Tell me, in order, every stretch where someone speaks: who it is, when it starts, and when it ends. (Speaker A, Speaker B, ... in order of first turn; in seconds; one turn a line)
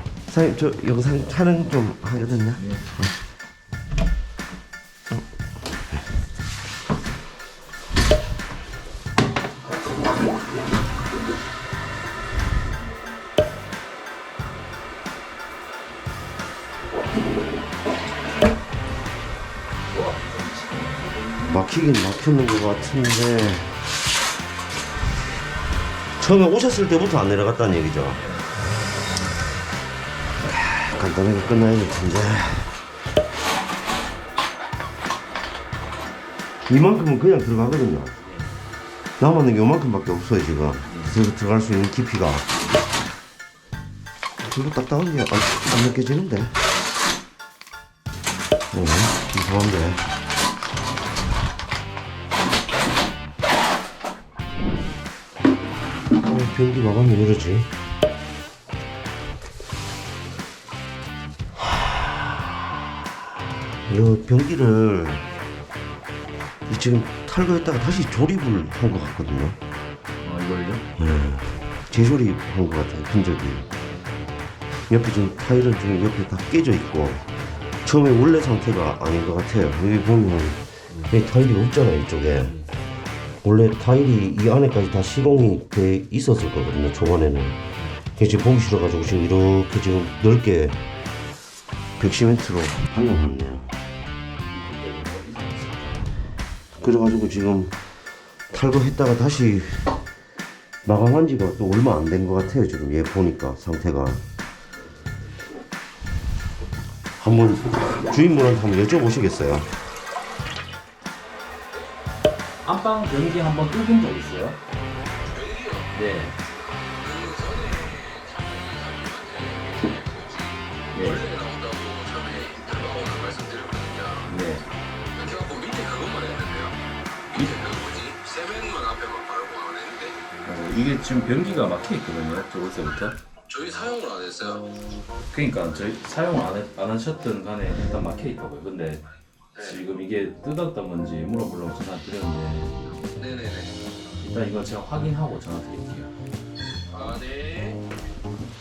Speaker A: 0.2-3.1
Speaker B: 19.9-21.6
Speaker A: 21.4-23.8
Speaker A: 26.2-28.2
Speaker B: 28.2-28.6
Speaker A: 30.4-32.9
Speaker A: 36.6-38.1
Speaker B: 38.2-38.6
Speaker A: 39.2-42.5
Speaker B: 40.9-41.1
Speaker A: 44.4-46.6
Speaker A: 48.7-50.1
Speaker A: 56.1-57.7
Speaker A: 61.6-62.4
Speaker A: 63.8-65.3
Speaker A: 66.7-69.6
Speaker B: 70.2-70.9
Speaker A: 71.0-73.7
Speaker A: 74.9-77.3
Speaker A: 77.8-82.7
Speaker A: 83.4-87.6
Speaker A: 88.2-90.9
Speaker A: 92.0-93.7
Speaker B: 94.5-96.1
Speaker A: 96.7-97.8
Speaker A: 98.5-99.9
Speaker A: 100.8-104.2
Speaker A: 107.2-109.7
Speaker B: 112.6-114.6
Speaker C: 115.3-115.8
Speaker B: 115.9-116.4
Speaker C: 117.0-120.5
Speaker B: 120.9-121.3
Speaker C: 121.2-124.2
Speaker B: 124.2-124.7
Speaker C: 125.1-126.8
Speaker C: 127.3-130.2
Speaker B: 130.4-133.2
Speaker C: 133.5-134.7
Speaker B: 135.3-142.8
Speaker C: 143.2-143.7
Speaker B: 144.2-146.1
Speaker C: 146.9-147.8